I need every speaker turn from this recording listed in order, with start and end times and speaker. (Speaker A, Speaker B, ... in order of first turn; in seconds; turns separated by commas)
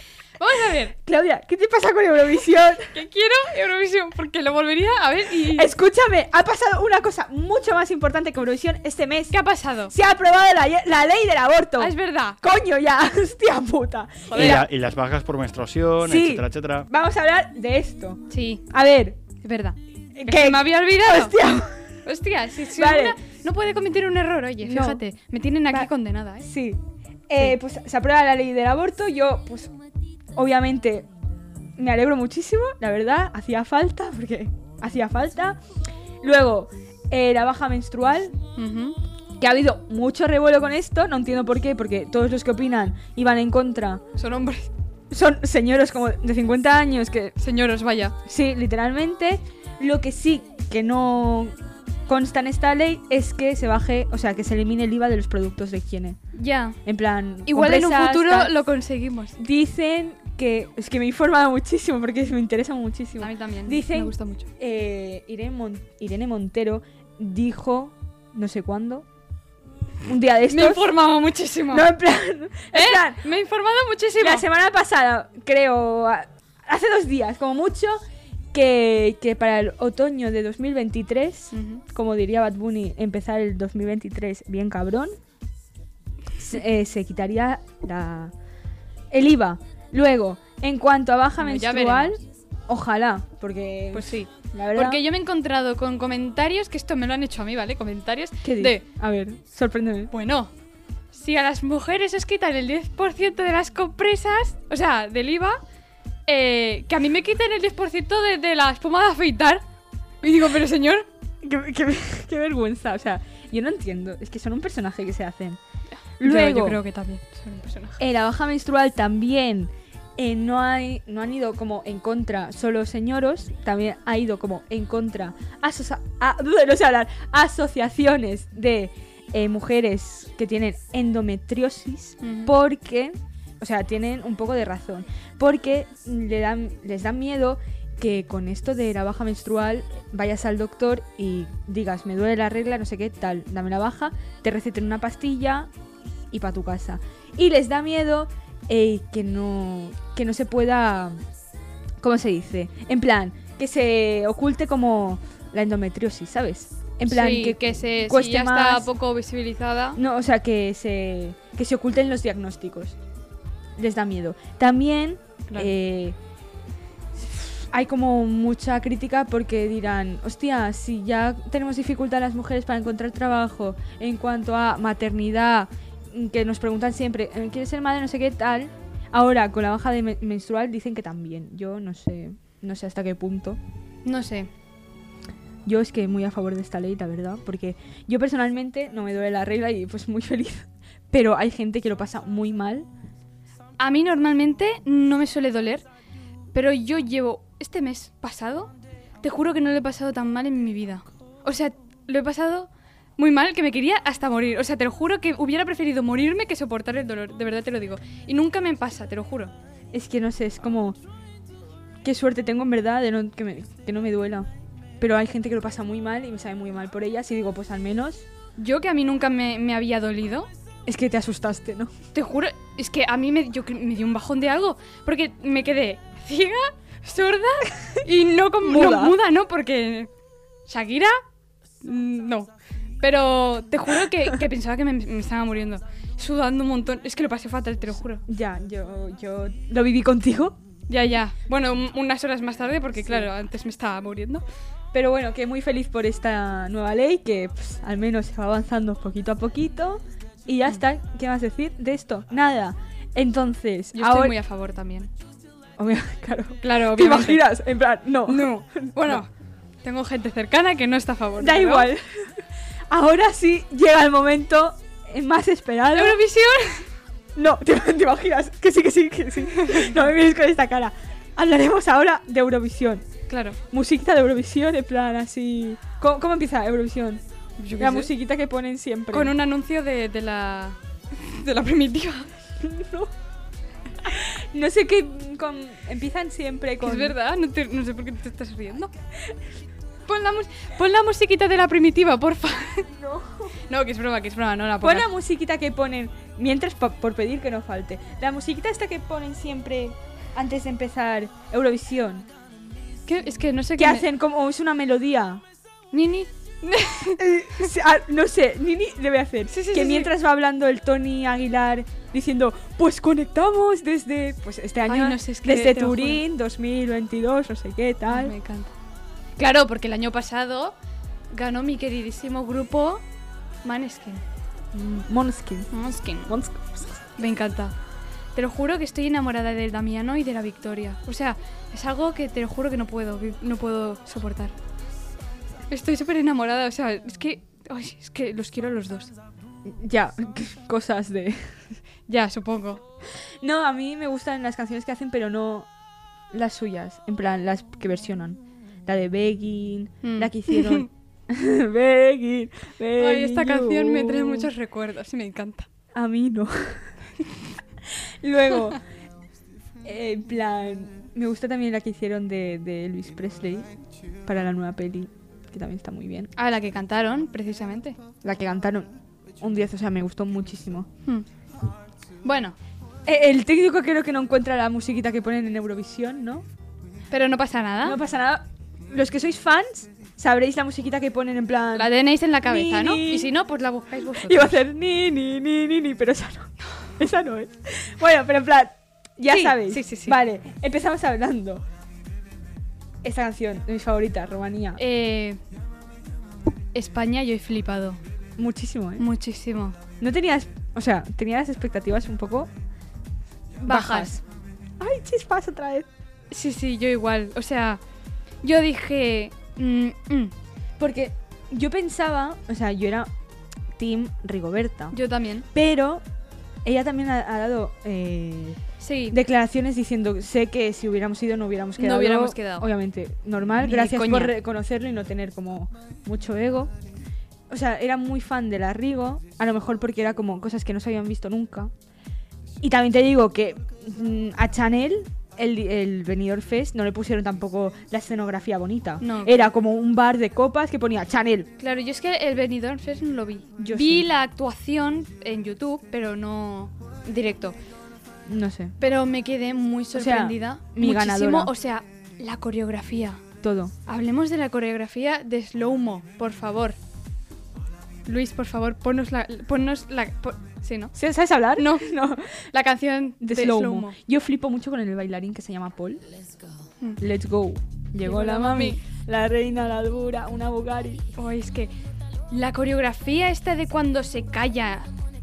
Speaker A: 0.4-1.0, Speaker B: 1.0-3.0, Speaker A: 2.9-5.7, Speaker B: 5.4-9.4, Speaker A: 9.3-9.9, Speaker B: 9.9-14.7, Speaker A: 11.8-12.4, Speaker A: 14.3-14.6, Speaker C: 14.3-16.9, Speaker B: 16.0-19.2, Speaker A: 18.3-18.6, Speaker A: 19.4-21.4, Speaker B: 20.2-21.9, Speaker A: 22.1-26.5, Speaker B: 22.7-23.2, Speaker B: 24.6-25.0, Speaker B: 26.4-29.7, Speaker B: 30.4-31.1, Speaker B: 31.8-35.6, Speaker B: 36.2-38.4, Speaker A: 38.6-39.0, Speaker B: 39.4-44.0, Speaker A: 44.2-44.7, Speaker B: 45.1-47.4, Speaker A: 47.4-48.2, Speaker B: 48.2-51.5, Speaker B: 52.1-56.2, Speaker A: 56.3-56.8, Speaker B: 56.9-58.5, Speaker A: 57.5-59.4, Speaker B: 59.4-69.1, Speaker A: 63.2-64.5, Speaker B: 70.0-70.9, Speaker A: 70.5-71.9, Speaker B: 71.7-73.3, Speaker A: 72.7-74.5, Speaker B: 74.2-78.0, Speaker B: 78.5-85.2, Speaker A: 81.5-81.8, Speaker B: 86.4-88.3, Speaker B: 89.1-95.0, Speaker A: 91.4-92.2, Speaker A: 93.9-98.8, Speaker B: 98.4-100.1, Speaker A: 100.1-100.5, Speaker A: 101.1-105.6, Speaker A: 106.3-109.6, Speaker A: 110.2-111.1, Speaker B: 111.4-115.6, Speaker A: 115.9-118.0, Speaker B: 116.2-116.8, Speaker B: 118.0-145.7, Speaker A: 132.2-132.5, Speaker B: 146.3-151.2, Speaker B: 152.0-158.9, Speaker A: 157.1-160.0, Speaker B: 160.0-163.0, Speaker B: 163.8-166.2, Speaker B: 167.2-183.6, Speaker A: 184.1-184.5, Speaker B: 185.7-192.9, Speaker A: 193.8-195.8, Speaker A: 196.5-209.5, Speaker B: 209.9-211.0, Speaker B: 212.0-214.5, Speaker B: 215.0-218.3, Speaker A: 218.6-220.5, Speaker B: 220.9-221.9, Speaker A: 222.1-230.1, Speaker B: 228.6-229.2, Speaker A: 230.7-231.2, Speaker A: 231.8-238.2, Speaker B: 238.3-240.6, Speaker A: 240.9-244.4, Speaker B: 244.9-254.4, Speaker A: 253.9-255.1, Speaker B: 255.8-259.2, Speaker A: 256.6-257.5, Speaker A: 258.3-259.3, Speaker A: 259.8-261.9, Speaker B: 261.4-266.2, Speaker A: 265.9-266.9, Speaker B: 267.4-273.1, Speaker A: 269.6-269.9, Speaker A: 273.3-273.6, Speaker B: 273.7-277.2, Speaker A: 277.6-278.1, Speaker B: 277.8-279.4, Speaker A: 279.1-282.3, Speaker B: 282.6-283.1, Speaker B: 284.0-287.2, Speaker A: 286.8-288.9, Speaker A: 290.1-292.9, Speaker B: 292.9-293.5, Speaker A: 293.7-295.1, Speaker B: 294.8-302.3, Speaker A: 303.1-304.1, Speaker B: 303.8-305.4, Speaker A: 305.9-307.6, Speaker B: 307.2-318.3, Speaker A: 309.5-310.1, Speaker A: 314.9-316.2, Speaker A: 318.1-318.7, Speaker A: 319.4-320.8, Speaker A: 321.3-323.0, Speaker A: 323.6-324.2, Speaker B: 324.7-325.7, Speaker A: 325.7-326.4, Speaker B: 326.3-326.9, Speaker A: 327.2-327.8, Speaker A: 328.4-334.6, Speaker A: 335.7-339.1, Speaker B: 339.7-341.6, Speaker A: 342.1-342.8, Speaker B: 343.4-345.7, Speaker B: 346.3-354.5, Speaker A: 350.0-350.9, Speaker A: 353.0-355.7, Speaker B: 355.9-356.9, Speaker B: 357.9-358.8, Speaker B: 359.8-363.7, Speaker B: 364.2-366.3, Speaker A: 366.4-368.0, Speaker B: 368.2-370.9, Speaker A: 372.2-372.6, Speaker B: 373.1-376.4, Speaker A: 377.1-378.0, Speaker B: 377.8-383.3, Speaker A: 381.7-384.6, Speaker B: 384.1-391.6, Speaker A: 389.3-390.2, Speaker B: 393.0-394.8, Speaker A: 394.8-395.4, Speaker A: 396.7-398.0, Speaker B: 398.4-399.1, Speaker A: 399.0-399.8, Speaker B: 400.0-402.5, Speaker A: 403.6-404.2, Speaker B: 403.6-404.2, Speaker B: 404.8-405.9, Speaker A: 406.3-407.8, Speaker A: 408.4-410.3, Speaker B: 410.8-413.1, Speaker B: 413.8-415.0, Speaker A: 414.9-415.5, Speaker B: 415.5-416.0, Speaker B: 416.6-418.6, Speaker A: 418.8-419.2, Speaker B: 419.1-426.7, Speaker A: 421.8-422.7, Speaker A: 423.6-424.4, Speaker B: 427.5-431.7, Speaker B: 432.6-441.5, Speaker A: 439.0-439.5, Speaker A: 441.6-447.6, Speaker B: 443.6-444.1, Speaker B: 448.3-448.8, Speaker A: 448.8-453.2, Speaker B: 449.9-451.5, Speaker B: 453.4-453.7, Speaker A: 453.9-456.8, Speaker A: 458.1-461.0, Speaker B: 460.9-462.5, Speaker A: 461.5-464.0, Speaker B: 463.2-466.0, Speaker B: 467.0-471.1, Speaker A: 468.0-468.8, Speaker A: 471.1-471.7, Speaker A: 472.3-474.9